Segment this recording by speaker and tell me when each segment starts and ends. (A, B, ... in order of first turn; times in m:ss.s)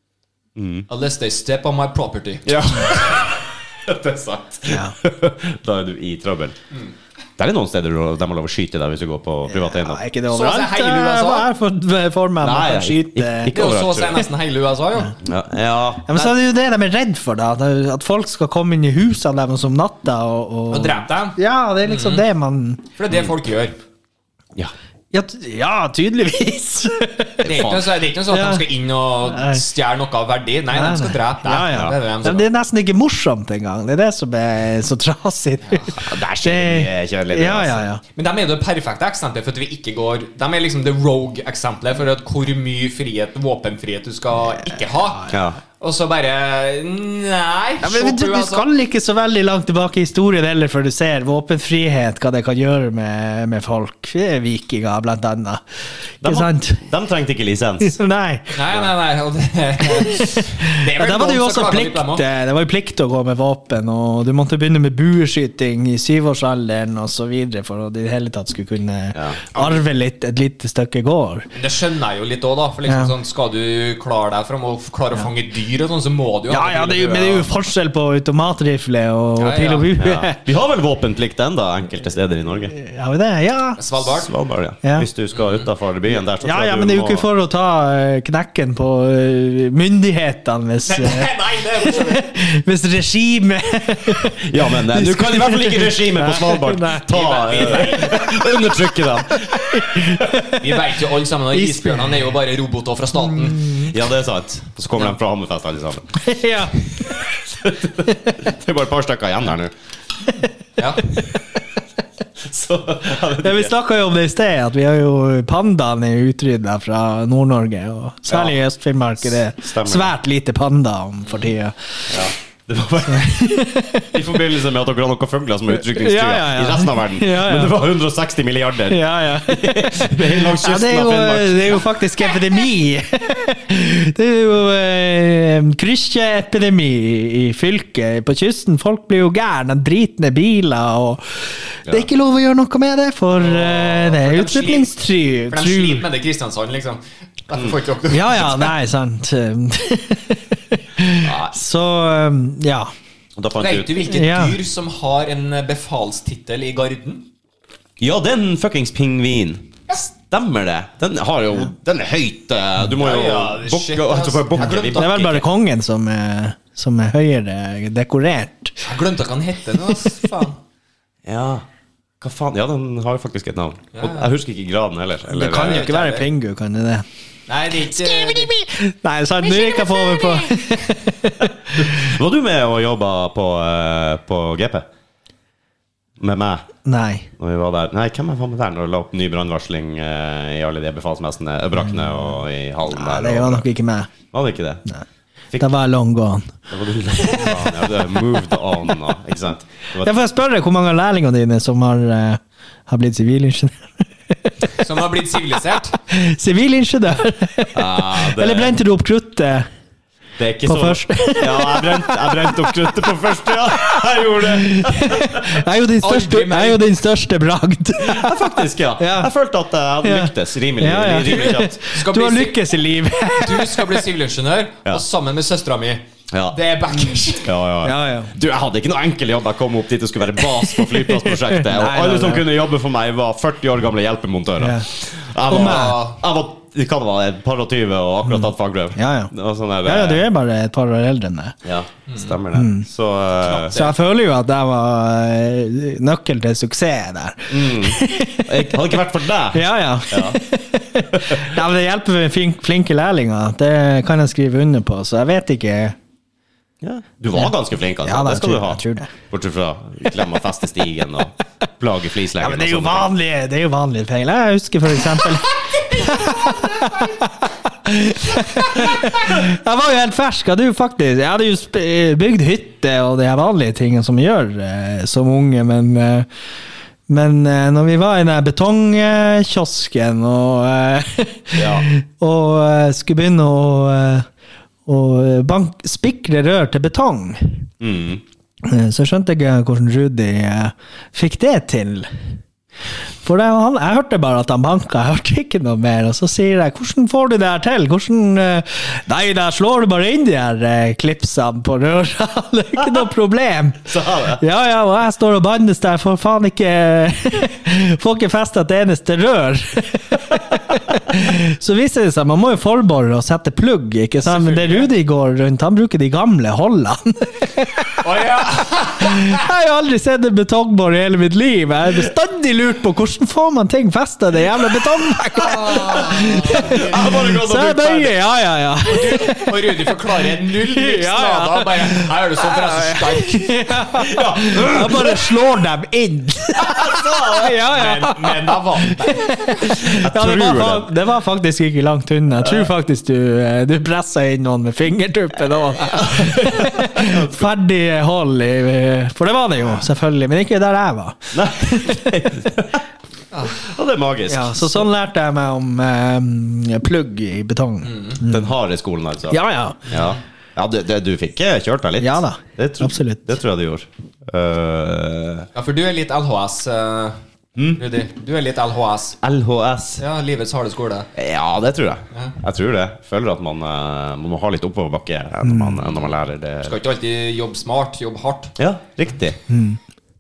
0:00.6-0:00.9 A
0:00.9-0:03.2 B
0:02.4-0:06.5 A
0:04.7-0:04.9 C
0:07.4-0:10.0 A
0:09.5-0:13.6 C
0:10.3-0:11.5 B
0:12.4-0:14.2 A
0:13.5-0:15.2 B
0:15.2-0:16.3 A
0:16.1-0:22.8 C
0:20.7-0:22.2 B
0:23.0-0:23.8 B
0:25.1-0:27.5 C
0:27.4-0:27.9 A
0:27.4-0:32.5 B
0:28.3-0:28.6 C
0:29.2-0:29.6 C
0:30.7-0:38.0 C
0:35.6-0:35.9 B
0:36.0-0:37.8 A
0:38.2-0:48.6 B
0:45.3-0:45.6 A
0:47.8-0:55.6 C
0:56.2-0:57.9 A
0:56.2-0:56.8 C
0:57.8-0:58.6 C
0:58.5-1:02.2 B
0:59.8-1:11.5 C
1:09.1-1:09.7 A
1:11.5-1:17.5 B
1:12.9-1:13.1 C
1:16.5-1:20.4 C
1:19.4-1:19.9 B
1:20.0-1:22.7 A
1:22.7-1:23.8 C
1:23.8-1:24.3 B
1:24.1-1:27.3 A
1:25.3-1:25.6 B
1:26.4-1:31.3 C
1:30.8-1:32.3 B
1:31.8-1:40.8 C
1:34.4-1:40.2 A
1:37.1-1:38.2 B
1:40.5-1:43.8 B
1:41.5-1:42.2 C
1:43.2-1:43.9 C
1:43.9-1:46.2 A
1:46.2-1:47.4 C
1:47.6-1:49.7 A
1:48.0-1:48.5 C
1:50.8-1:51.0 B
1:52.4-1:53.7 A
1:53.4-2:02.2 C
1:58.3-1:58.6 A
1:59.4-2:00.1 A
2:02.1-2:03.5 A
2:03.1-2:04.2 C
2:04.1-2:11.9 A
2:05.7-2:07.8 C
2:08.8-2:26.1 C
2:23.3-2:28.7 B
2:28.1-2:32.9 C
2:31.2-2:31.6 A
2:33.4-2:34.1 A
2:33.6-2:37.2 B
2:34.1-2:34.6 C
2:38.0-2:45.4 A
2:43.0-2:45.2 B
2:44.6-2:48.8 C
2:48.8-2:50.6 B
2:51.2-2:51.6 A
2:52.2-2:55.8 A
2:53.9-2:54.3 B
2:55.3-2:57.0 C
2:55.5-2:56.3 B
2:57.5-2:58.5 B
2:57.7-3:02.2 C
2:59.4-3:00.4 B
3:01.8-3:04.8 A
3:06.2-3:06.6 A
3:06.8-3:07.3 C
3:07.4-3:13.6 A
3:12.9-3:14.1 C
3:14.3-3:14.8 A
3:15.6-3:16.6 C
3:16.7-3:20.1 A
3:17.2-3:17.8 C
3:20.0-3:24.7 C
3:24.8-3:26.0 B
3:26.1-3:29.7 C
3:27.7-3:28.8 A
3:30.4-3:35.6 A
3:30.6-3:32.9 C
3:33.5-3:39.3 C
3:36.0-3:36.9 B
3:38.0-3:41.8 A
3:40.0-3:44.0 C
3:41.2-3:42.6 B
3:43.4-3:47.5 B
3:46.3-3:46.6 A
3:47.4-4:00.2 A
3:47.8-3:48.3 C
3:50.6-3:52.5 C
3:54.6-3:54.9 C
3:55.5-3:56.0 C
3:55.5-3:56.2 B
3:58.3-3:59.3 C
3:59.8-4:01.6 C
4:01.6-4:03.8 A
4:02.1-4:02.3 B
4:02.5-4:02.9 C
4:03.4-4:03.9 B
4:03.7-4:08.8 C
4:07.5-4:10.4 A
4:09.5-4:16.0 C
4:11.2-4:11.4 A
4:16.8-4:23.1 A
4:18.0-4:19.1 C
4:22.4-4:36.3 C
4:25.5-4:27.2 B
4:28.3-4:29.3 B
4:37.1-4:44.3 C
4:41.5-4:41.9 A
4:44.8-4:47.7 C
4:47.8-4:48.2 A
4:48.6-4:52.1 C
4:53.2-5:29.7 C
5:03.8-5:04.4 A
5:14.2-5:14.9 B
5:18.0-5:19.4 B
5:25.3-5:27.2 B
5:26.5-5:28.2 A
5:28.8-5:33.8 B
5:30.4-5:52.5 C
5:34.0-5:35.3 A
5:36.6-5:37.6 A
5:37.6-5:39.7 B
5:39.9-5:40.9 A
5:42.4-5:42.7 A
5:46.0-5:47.5 A
5:51.3-5:52.8 A
5:53.3-5:53.6 B
5:53.5-5:54.8 A
5:54.3-5:58.6 C
5:57.8-5:58.2 B
5:58.2-6:05.5 A
5:59.3-5:59.9 C
5:59.9-6:00.2 B
6:02.0-6:03.3 C
6:05.5-6:07.2 B
6:07.6-6:07.8 A
6:07.8-6:09.2 B
6:09.2-6:10.0 A
6:10.0-6:11.1 B
6:11.2-6:16.7 A
6:12.1-6:12.4 B
6:15.4-6:15.8 C
6:16.6-6:18.6 B
6:18.6-6:19.4 A
6:19.5-6:19.8 C